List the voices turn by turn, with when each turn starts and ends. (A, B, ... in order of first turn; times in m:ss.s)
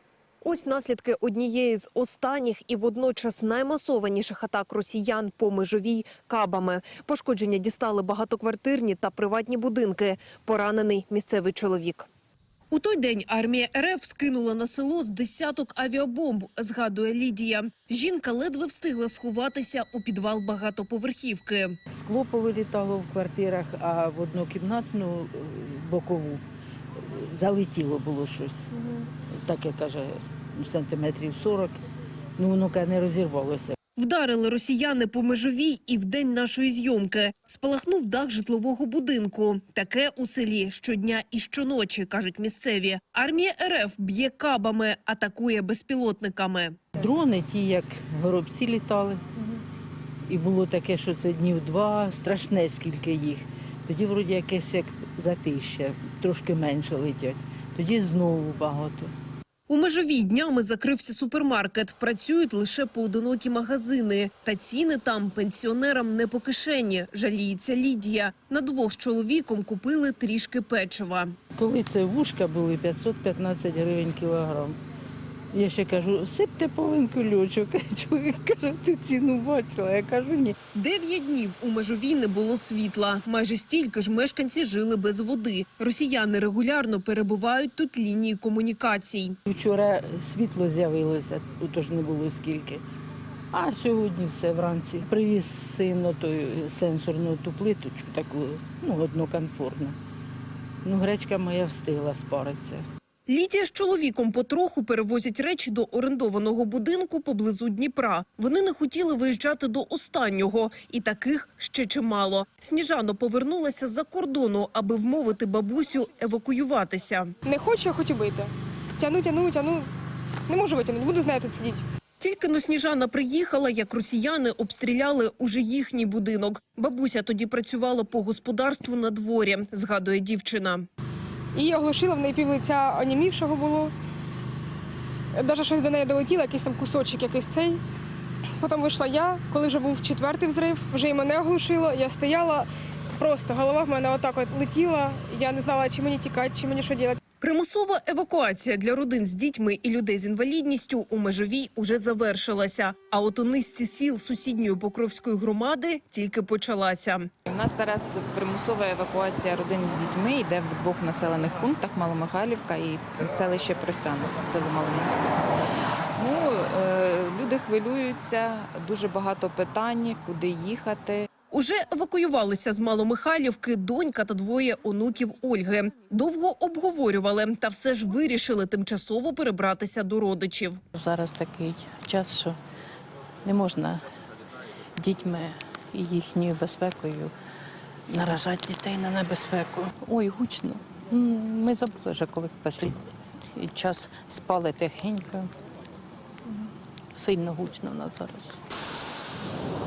0:00.4-0:12.1 A
0:12.7-0:21.8 A
0:21.9-0:26.4 B
0:26.9-0:31.8 B
0:32.4-0:33.8 B
0:34.0-0:46.8 A
0:46.9-0:49.6 B
0:50.3-0:59.1 B
0:59.7-1:11.3 A
1:11.6-1:14.8 B
1:15.5-1:20.6 B
1:20.7-1:29.4 A
1:29.5-1:32.8 B
1:33.5-1:40.0 B
1:40.8-1:42.8 B
1:43.3-1:57.3 A
1:57.4-1:59.9 C
2:00.5-2:01.8 C
2:02.2-2:10.8 A
2:11.5-2:13.9 C
2:15.3-2:17.8 C
2:18.6-2:27.2 C
2:27.4-2:37.3 A
2:37.5-2:45.5 D
2:46.1-2:51.3 D
2:51.5-3:00.8 A
3:00.9-3:01.3 B
3:01.0-3:02.5 E
3:02.0-3:02.4 B
3:03.4-3:03.8 B
3:03.5-3:04.0 E
3:05.0-3:05.3 B
3:05.1-3:07.3 E
3:05.9-3:07.1 B
3:08.1-3:10.8 E
3:08.4-3:09.8 B
3:10.6-3:12.5 B
3:11.3-3:12.9 E
3:13.6-3:15.4 B
3:13.6-3:15.4 E
3:17.2-3:18.5 B
3:17.2-3:18.4 E